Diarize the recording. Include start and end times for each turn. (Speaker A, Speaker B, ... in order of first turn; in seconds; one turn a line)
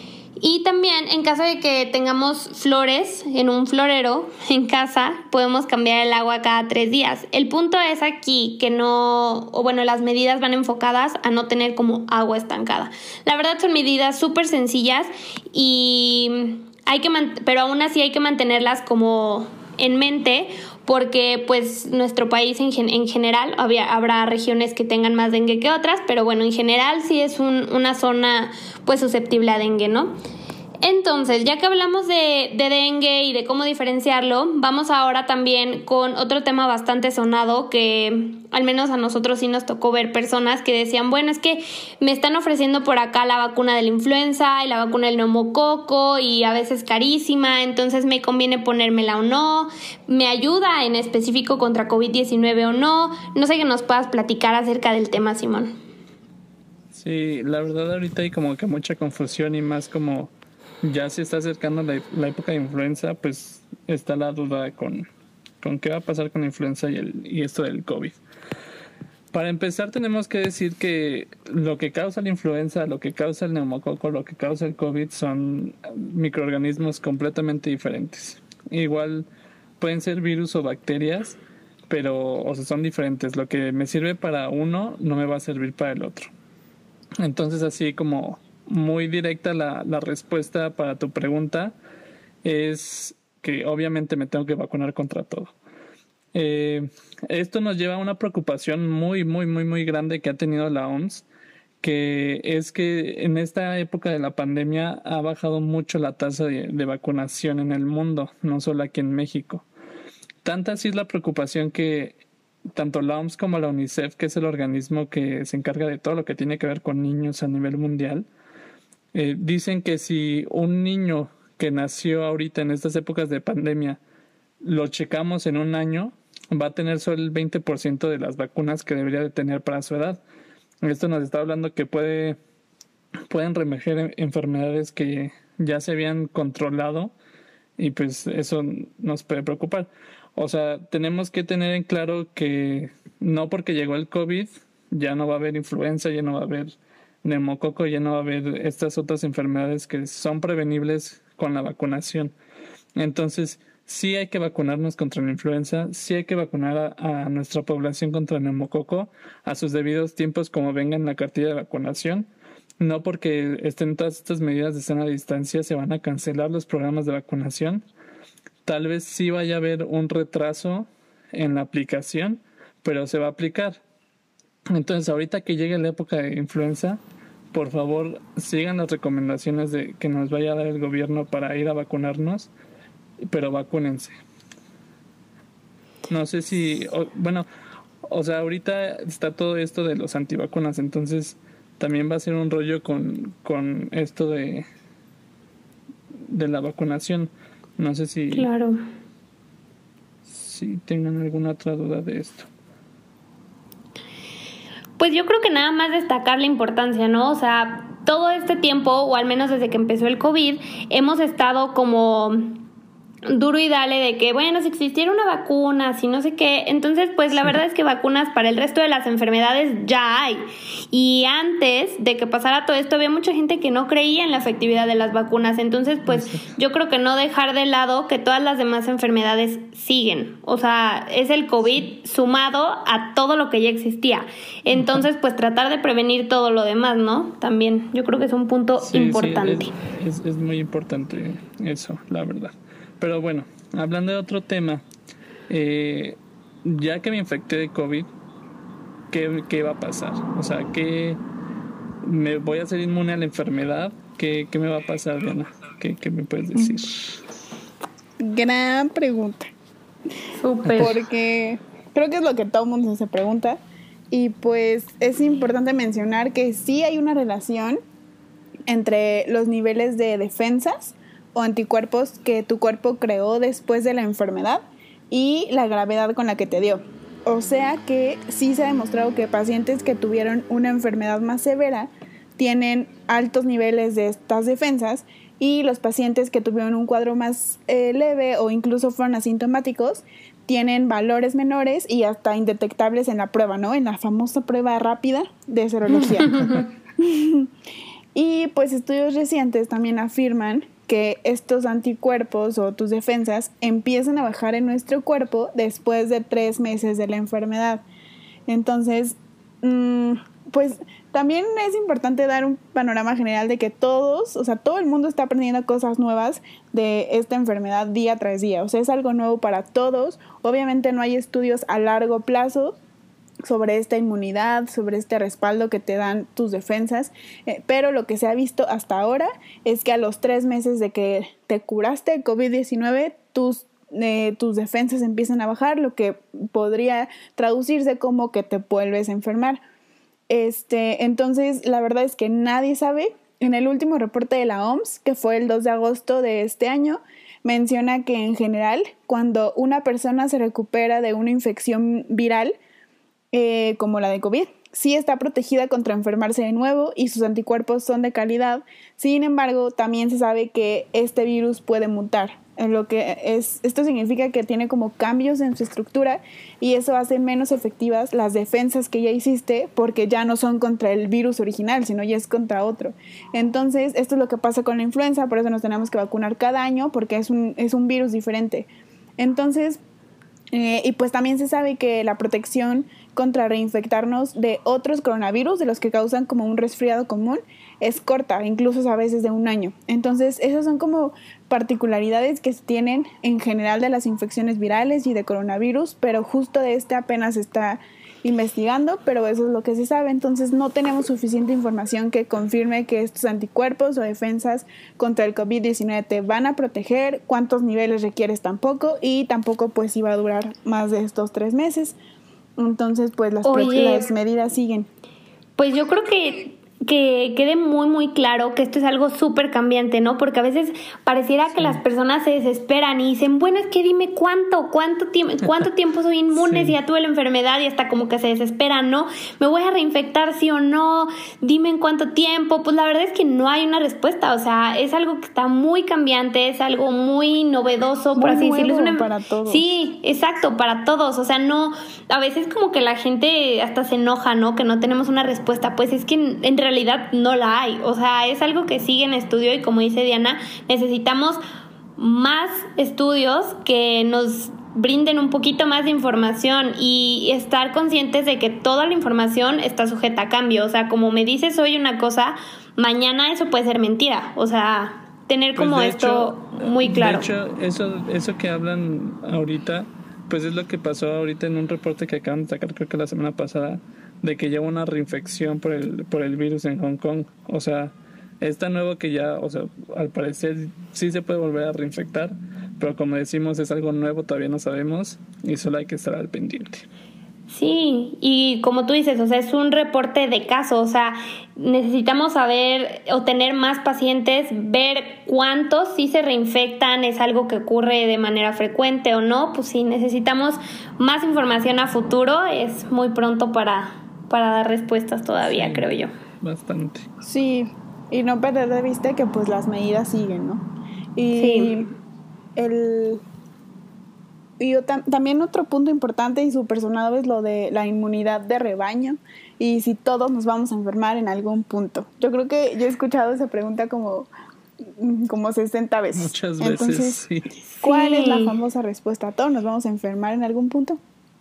Speaker A: 0.4-30.1
Speaker A: 30.8-55.7
Speaker B: 56.9-65.0
Speaker B: 65.6-68.2
Speaker B: 69.3-79.3
Speaker B: 79.8-81.4
Speaker B: 81.9-86.3
Speaker B: 87.2-91.7
Speaker B: 92.4-95.5
Speaker B: 96.3-101.2
Speaker B: 101.8-109.6
Speaker B: 110.4-112.1
Speaker B: 112.7-118.2
Speaker B: 119.1-124.0
Speaker B: 124.6-130.2
Speaker B: 130.8-132.4
Speaker B: 133.3-137.1
Speaker B: 137.8-152.3
Speaker B: 152.9-162.3
Speaker B: 162.8-167.8
Speaker B: 168.6-173.8
Speaker B: 174.7-177.0
Speaker B: 177.5-182.5
Speaker B: 183.2-184.1
Speaker B: 186.1-187.4
Speaker B: 188.1-194.6
Speaker B: 196.3-198.5
Speaker A: 198.3-198.8
Speaker B: 200.2-202.5
Speaker A: 205.0-212.6
Speaker A: 213.3-239.7
Speaker B: 226.1-226.5
Speaker B: 234.7-235.0
Speaker B: 238.8-244.8
Speaker B: 245.5-248.1
Speaker B: 249.1-251.2
Speaker B: 252.0-257.2
Speaker C: 258.2-259.5
Speaker A: 260.3-260.9
Speaker B: 260.6-260.9
Speaker C: 260.8-267.8
Speaker C: 268.7-297.5
Speaker A: 296.2-296.6
Speaker C: 298.1-307.8
Speaker C: 308.5-322.8
Speaker C: 323.4-339.6
Speaker C: 340.3-352.6
Speaker C: 353.3-379.8
Speaker C: 380.5-412.0
Speaker C: 412.6-414.9
Speaker A: 413.4-414.1
Speaker A: 415.6-451.4
Speaker B: 421.5-421.8
Speaker B: 426.3-426.8
Speaker C: 438.2-439.7
Speaker A: 452.0-467.3
Speaker B: 465.6-486.9
Speaker A: 487.5-506.1
Speaker B: 505.4-505.9
Speaker B: 506.4-507.1
Speaker C: 507.2-510.6
Speaker C: 511.1-511.9
Speaker A: 511.3-511.7
Speaker C: 512.5-513.2
Speaker C: 514.6-524.3
Speaker C: 524.8-527.2
Speaker B: 526.1-527.5
Speaker A: 527.8-528.5
Speaker C: 527.8-531.0